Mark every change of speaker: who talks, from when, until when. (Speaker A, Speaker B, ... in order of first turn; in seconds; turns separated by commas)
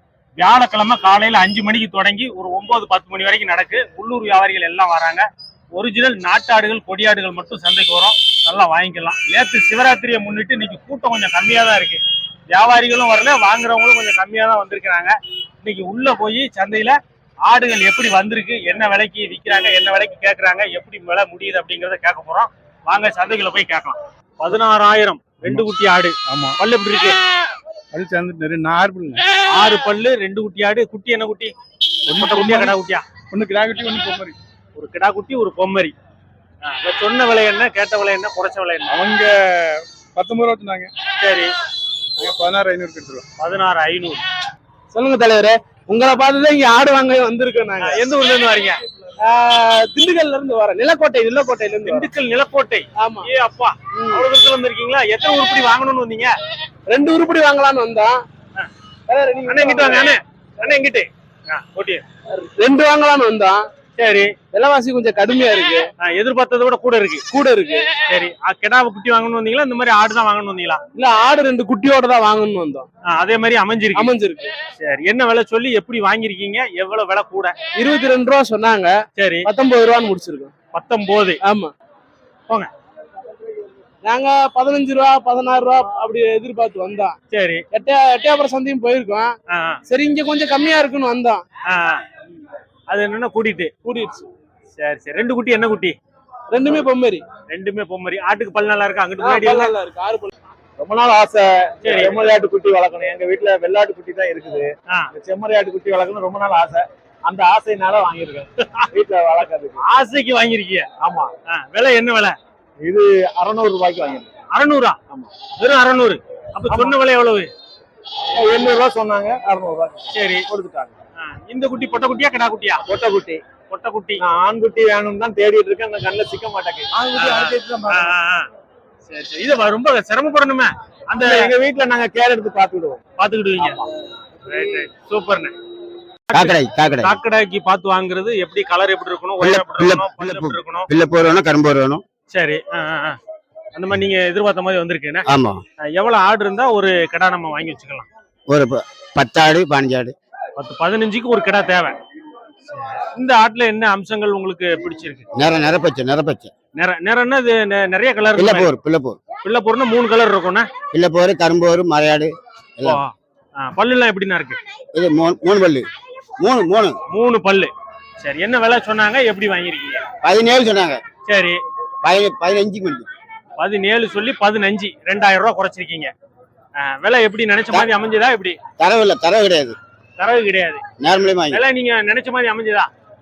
Speaker A: 0.4-27.1, Speaker B: 26.3-26.6, Speaker B: 27.9-29.2, Speaker A: 29.5-31.5, Speaker B: 32.1-32.8, Speaker A: 32.1-33.0, Speaker B: 33.3-34.4, Speaker A: 34.8-35.9, Speaker A: 36.7-39.0, Speaker B: 38.9-40.9, Speaker A: 41.2-41.5, Speaker B: 42.2-43.2, Speaker A: 43.4-44.2, Speaker C: 44.9-48.0, Speaker A: 47.8-48.8, Speaker C: 49.2-52.1, Speaker A: 51.9-56.3, Speaker C: 53.0-53.3, Speaker C: 53.9-54.3, Speaker C: 56.9-58.2, Speaker C: 59.1-60.1, Speaker A: 59.5-62.0, Speaker C: 62.4-63.6, Speaker A: 64.0-64.3, Speaker C: 64.5-65.8, Speaker A: 66.0-67.3, Speaker C: 67.3-67.9, Speaker A: 68.1-70.8, Speaker C: 70.9-72.9, Speaker A: 73.1-74.1, Speaker C: 74.0-74.5, Speaker A: 74.8-77.5, Speaker C: 77.8-80.5, Speaker A: 79.2-79.5, Speaker A: 80.7-81.4, Speaker C: 81.4-81.7, Speaker C: 84.0-87.2, Speaker A: 87.3-87.6, Speaker C: 87.7-89.3, Speaker A: 89.5-89.8, Speaker C: 89.9-91.4, Speaker A: 91.7-92.0, Speaker A: 92.9-93.7, Speaker C: 93.8-94.3, Speaker A: 94.8-96.0, Speaker C: 96.5-97.2, Speaker A: 97.5-99.7, Speaker C: 99.2-100.3, Speaker D: 100.8-109.8, Speaker A: 101.8-102.2, Speaker A: 109.8-110.9, Speaker D: 111.0-111.3, Speaker A: 111.4-112.4, Speaker D: 112.8-114.3, Speaker A: 114.5-115.0, Speaker A: 115.6-117.5, Speaker D: 116.7-117.0, Speaker D: 118.3-120.9, Speaker A: 120.1-120.5, Speaker A: 121.2-122.8, Speaker D: 122.8-123.4, Speaker A: 123.7-124.2, Speaker D: 124.2-128.0, Speaker A: 127.2-128.5, Speaker A: 129.1-131.5, Speaker D: 131.2-133.0, Speaker A: 133.2-133.8, Speaker A: 134.5-135.6, Speaker A: 136.3-140.9, Speaker E: 136.3-137.2, Speaker E: 139.4-142.0, Speaker A: 142.3-143.2, Speaker A: 143.8-145.3, Speaker E: 145.3-145.6, Speaker A: 145.9-148.1, Speaker E: 148.5-150.1, Speaker A: 150.6-151.9, Speaker A: 153.2-155.2, Speaker E: 155.3-156.5, Speaker A: 156.8-158.7, Speaker E: 158.4-159.2, Speaker A: 159.4-160.7, Speaker E: 160.9-163.0, Speaker A: 162.8-164.6, Speaker E: 164.9-165.8, Speaker E: 166.4-167.0, Speaker A: 167.1-170.0, Speaker E: 170.2-171.0, Speaker A: 171.3-171.6, Speaker E: 172.0-173.1, Speaker A: 173.6-176.1, Speaker A: 176.8-178.6, Speaker E: 178.8-179.8, Speaker A: 180.2-180.8, Speaker E: 181.0-181.6, Speaker A: 181.5-182.9